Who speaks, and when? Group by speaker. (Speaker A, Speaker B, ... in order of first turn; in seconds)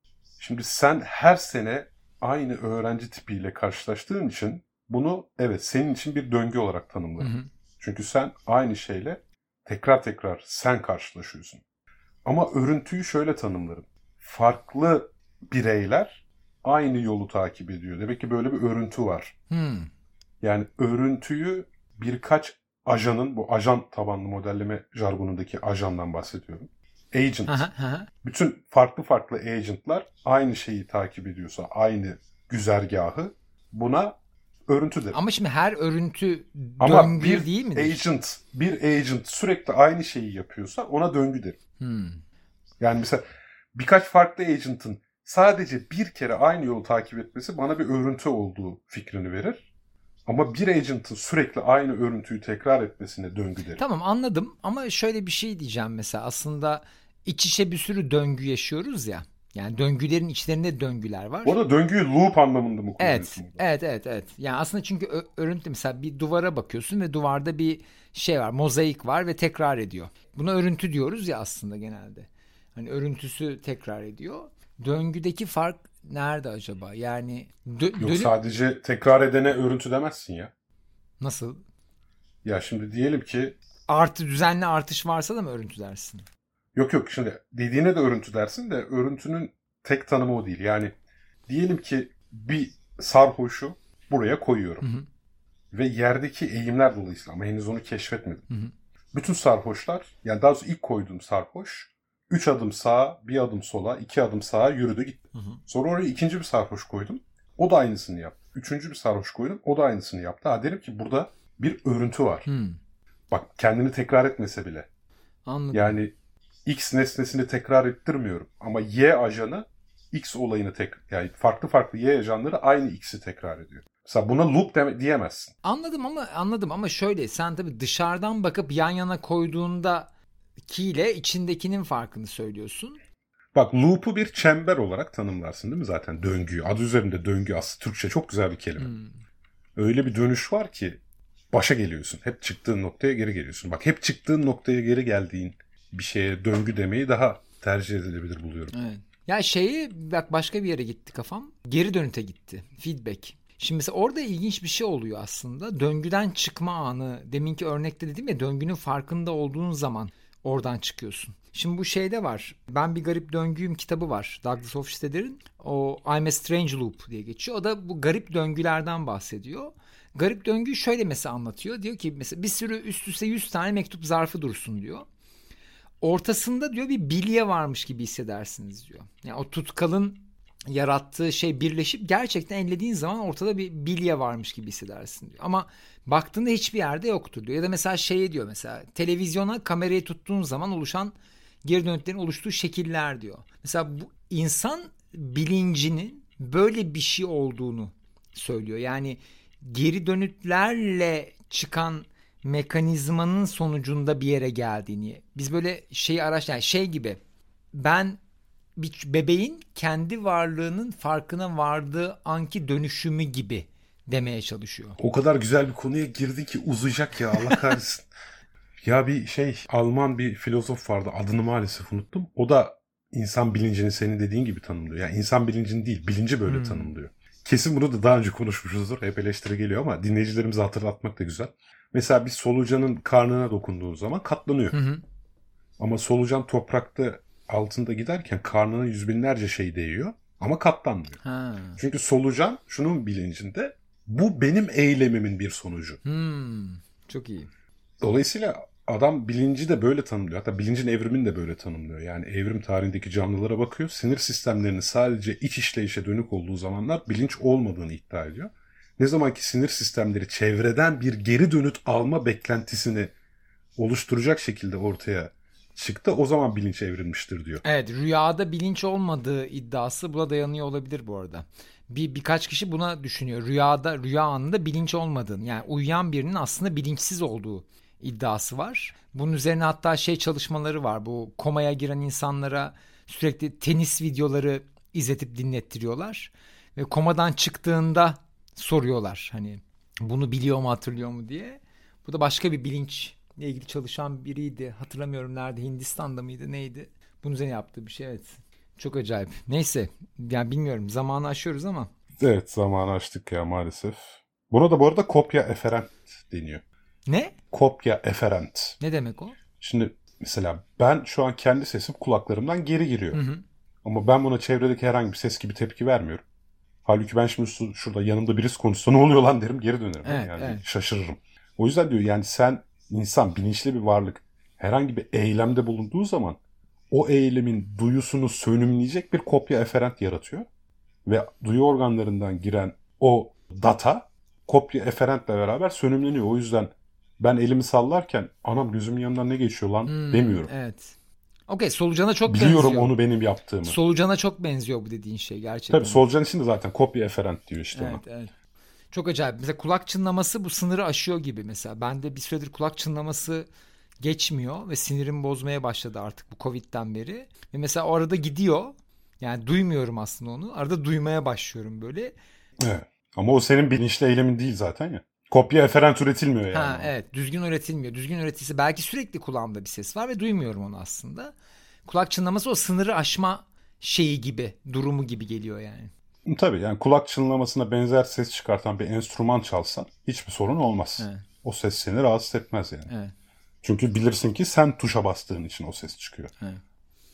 Speaker A: 0.4-11.6, 12.2-19.4, 20.4-27.6, 28.2-34.2, 34.7-35.2, 36.8-41.6, 42.8-43.2, 43.8-49.7, 50.3-53.8, 61.5-63.6, 78.0-80.5, 82.5-83.6, 86.8-90.9, 91.5-94.9, 95.7-98.5, 99.1-112.5, 113.3-114.9, 115.7-116.1, 116.7-125.5, 133.6-138.9, 139.8-141.0, 141.5-148.7, 215.0-218.1, 218.8-234.8, 235.8-241.2, 241.8-246.0, 248.0-263.1, 263.8-267.6, 302.2-306.6, 307.5-308.8, 309.6-313.2, 313.8-316.2, 316.9-326.4, 326.9-330.5, 331.1-340.5, 342.3-343.8, 345.7-348.0, 362.6-366.9, 376.3-382.9, 383.6-386.3
Speaker B: 7.2-7.5, 19.5-19.9, 27.5-28.1, 35.1-38.1, 41.8-42.2, 53.8-61.6, 63.0-78.3, 81.2-81.6, 83.9-86.2, 94.8-95.1, 105.3-105.6, 112.5-112.8, 115.5-116.0, 125.6-130.1, 130.7-133.0, 138.8-139.2, 148.7-175.1, 176.0-207.2, 207.7-208.2, 208.8-215.0, 217.3-217.6, 226.4-226.9, 234.7-235.0, 241.2-241.8, 246.0-247.5, 267.6-301.9, 307.1-307.4, 308.8-309.4, 313.1-313.4, 320.0-320.6, 339.9-341.0, 341.5-342.9, 343.6-346.0, 347.7-348.3, 348.9-353.5, 354.0-362.1, 366.5-371.3, 371.9-375.9, 381.0-381.3, 382.9-383.1